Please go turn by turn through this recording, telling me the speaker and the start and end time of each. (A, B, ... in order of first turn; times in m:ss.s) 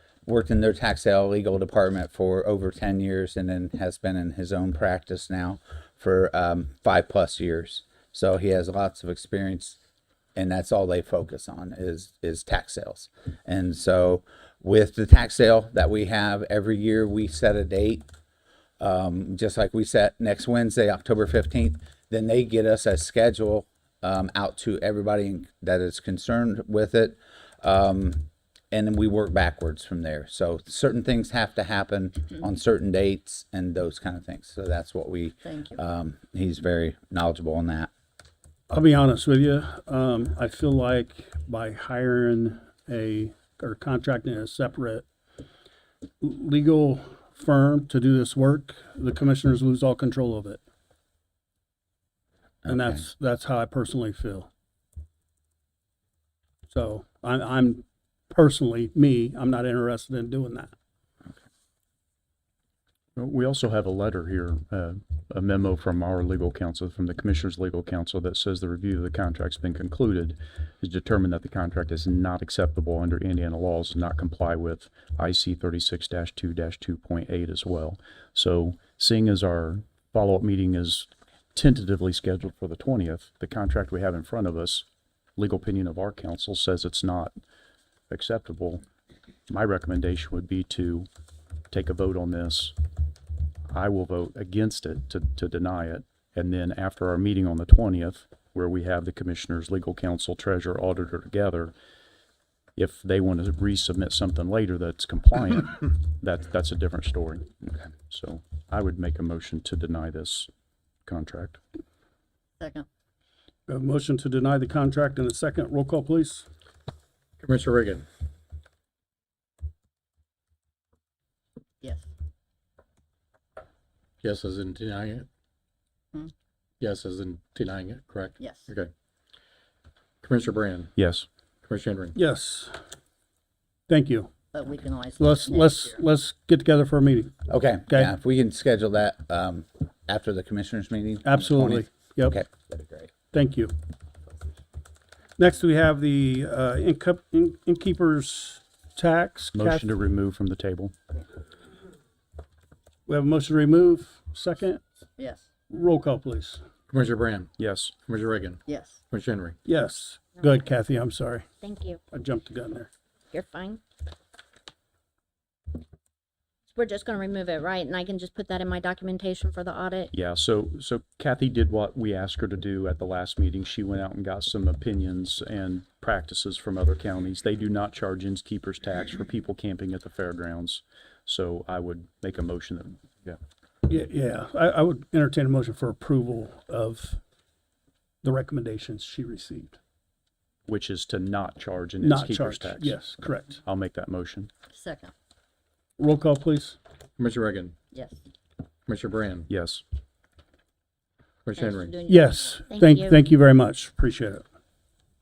0:00.3-0:09.8 A
0:10.4-0:18.1 A
0:18.8-0:37.9 A
0:35.4-0:35.8 B
0:38.7-0:45.0 C
0:46.2-0:50.6 C
0:52.6-0:53.1 A
0:52.7-0:54.5 C
0:56.7-1:00.7 C
1:03.2-1:27.3 D
1:28.1-1:28.8 D
1:29.5-1:31.1 D
1:31.7-1:32.8 D
1:33.7-1:41.7 D
1:42.8-1:50.5 D
1:51.1-1:51.6 D
1:52.6-1:52.9 B
1:53.7-1:56.5 C
1:57.4-1:58.1 E
2:01.8-2:02.1 B
2:04.2-2:05.3 E
2:06.8-2:08.9 E
2:08.4-2:08.7 B
2:10.2-2:10.9 E
2:11.0-2:11.3 D
2:11.6-2:12.2 E
2:12.2-2:12.8 C
2:13.9-2:14.4 C
2:14.5-2:16.0 B
2:15.2-2:17.3 C
2:17.5-2:23.1 A
2:21.2-2:22.4 C
2:23.3-2:23.8 C
2:25.4-2:29.9 C
2:29.6-2:30.9 D
2:33.1-2:34.8 C
2:35.2-2:35.5 B
2:35.7-2:36.6 C
2:36.9-2:37.5 E
2:37.6-2:37.9 D
2:38.1-2:39.6 E
2:38.7-2:39.0 B
2:39.6-2:41.5 C
2:40.4-2:40.7 F
2:41.6-2:42.0 F
2:42.1-2:42.9 C
2:43.3-2:43.8 F
2:46.7-2:50.1 F
2:50.1-3:03.4 D
3:03.9-3:07.2 C
3:08.2-3:09.8 C
3:10.7-3:13.0 D
3:12.0-3:13.6 C
3:13.6-3:14.5 D
3:14.7-3:15.1 B
3:16.0-3:16.8 C
3:17.2-3:17.8 E
3:17.9-3:18.2 B
3:18.9-3:19.5 E
3:19.5-3:19.8 D
3:21.4-3:22.0 E
3:21.6-3:22.6 B
3:22.0-3:24.4 C
3:22.7-3:23.2 F